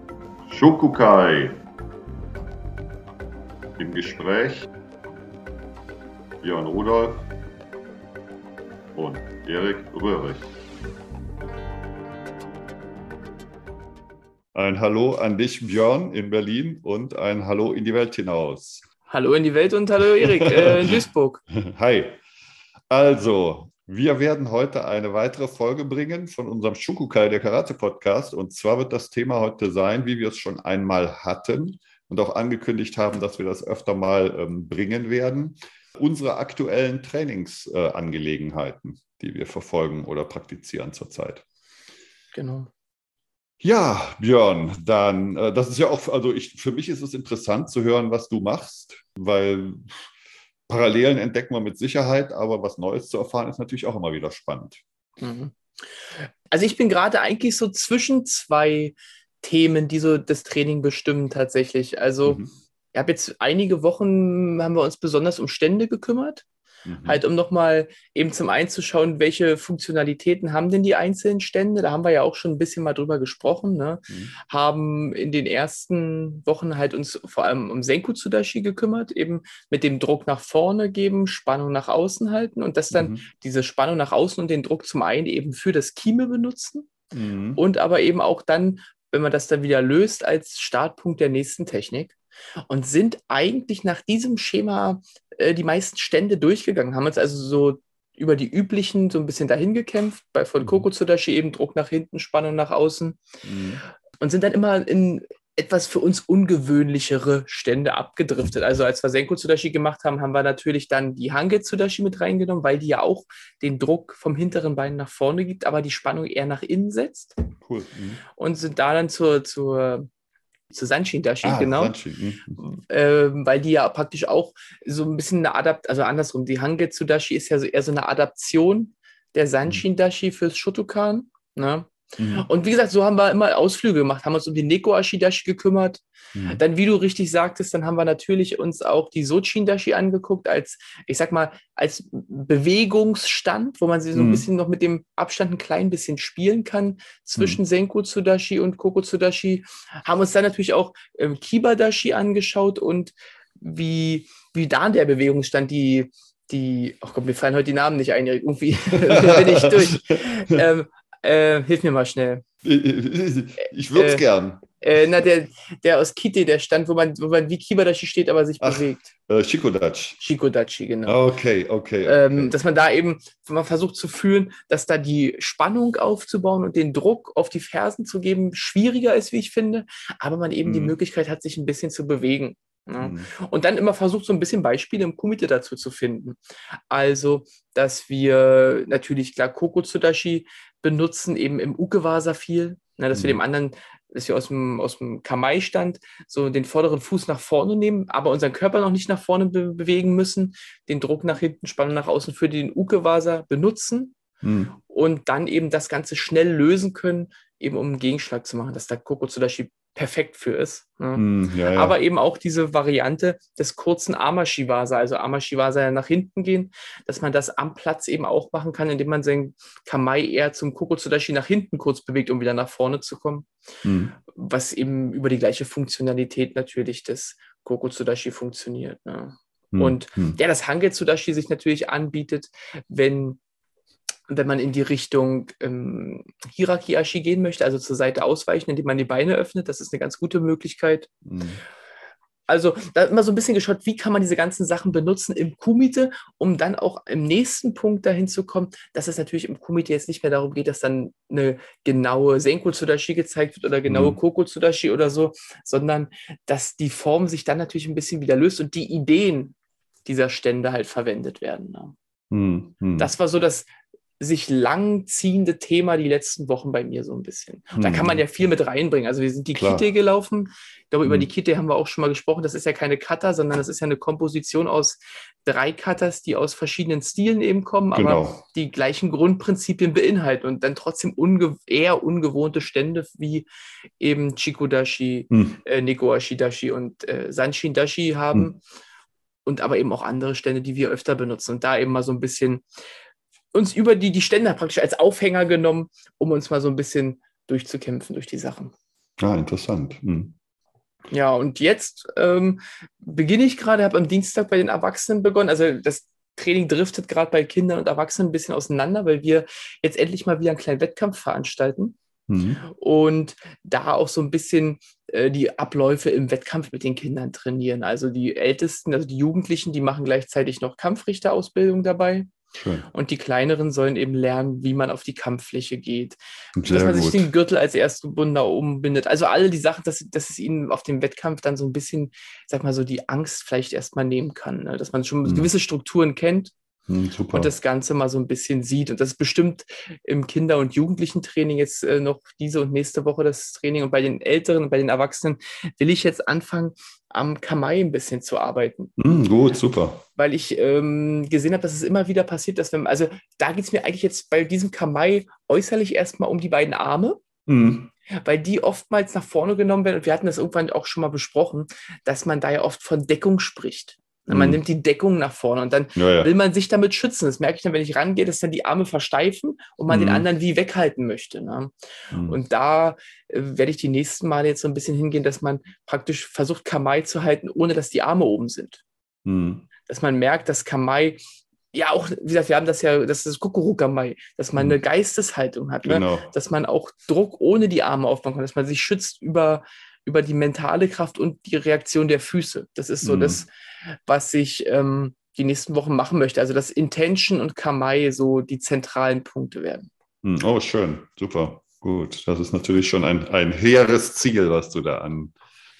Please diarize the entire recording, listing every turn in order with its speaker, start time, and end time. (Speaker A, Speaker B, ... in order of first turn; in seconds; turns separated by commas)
Speaker A: 0.5-1.6, Speaker A: 3.8-4.7, Speaker A: 6.4-7.2, Speaker A: 8.9-10.5, Speaker A: 14.5-18.8, Speaker B: 19.1-21.4, Speaker A: 20.2-21.0, Speaker A: 21.5-22.2, Speaker A: 22.9-41.4, Speaker B: 42.3-42.7, Speaker A: 43.6-50.1, Speaker A: 50.7-54.8, Speaker B: 55.2-55.5, Speaker B: 56.5-62.4, Speaker A: 62.2-62.5, Speaker B: 62.9-66.4, Speaker A: 66.8-67.2, Speaker B: 67.0-86.9, Speaker A: 74.1-74.3, Speaker A: 82.9-83.2, Speaker A: 87.1-87.6, Speaker B: 87.5-92.2, Speaker B: 92.7-103.2, Speaker A: 103.4-103.8, Speaker B: 104.2-117.3, Speaker A: 117.6-118.2, Speaker B: 118.4-120.1, Speaker B: 120.7-121.9, Speaker A: 121.4-122.6, Speaker B: 122.6-162.4, Speaker A: 132.2-132.5, Speaker A: 136.3-136.6, Speaker A: 144.1-144.4, Speaker A: 158.9-160.6, Speaker A: 162.6-164.7, Speaker B: 163.9-164.2, Speaker B: 164.8-169.1, Speaker A: 168.6-170.2, Speaker B: 170.2-171.2, Speaker A: 171.0-172.5, Speaker B: 172.0-186.4, Speaker A: 180.6-180.9, Speaker A: 183.0-183.3, Speaker B: 186.9-204.1, Speaker A: 193.1-193.4, Speaker A: 204.4-204.7, Speaker B: 204.8-223.5, Speaker A: 211.1-212.0, Speaker A: 223.8-224.1, Speaker B: 224.2-233.4, Speaker A: 229.7-230.4, Speaker B: 234.3-241.1, Speaker A: 241.2-241.6, Speaker B: 242.5-259.5, Speaker A: 253.9-254.2, Speaker B: 260.1-261.9, Speaker A: 262.3-263.1, Speaker B: 263.0-263.7, Speaker B: 264.2-283.5, Speaker A: 267.7-268.2, Speaker A: 269.5-269.8, Speaker A: 277.9-278.4, Speaker B: 284.0-288.6, Speaker A: 285.3-285.6, Speaker B: 289.4-292.6, Speaker B: 293.5-298.7, Speaker A: 299.2-300.3, Speaker B: 301.1-311.9, Speaker A: 312.3-312.6, Speaker B: 312.6-322.3, Speaker A: 322.5-322.9, Speaker B: 322.9-326.2, Speaker A: 326.6-327.3, Speaker B: 326.7-336.5, Speaker A: 336.9-337.5, Speaker B: 337.3-348.9, Speaker A: 349.0-350.0, Speaker B: 350.1-357.2, Speaker A: 357.5-357.9, Speaker B: 358.1-371.7, Speaker A: 364.3-364.6, Speaker A: 365.9-366.3, Speaker A: 369.9-370.2, Speaker A: 372.1-372.4, Speaker B: 372.3-378.8, Speaker A: 379.2-379.6, Speaker B: 379.9-381.2, Speaker B: 381.7-393.5, Speaker A: 385.8-386.3, Speaker A: 393.0-393.4, Speaker B: 394.1-399.9, Speaker A: 400.2-405.3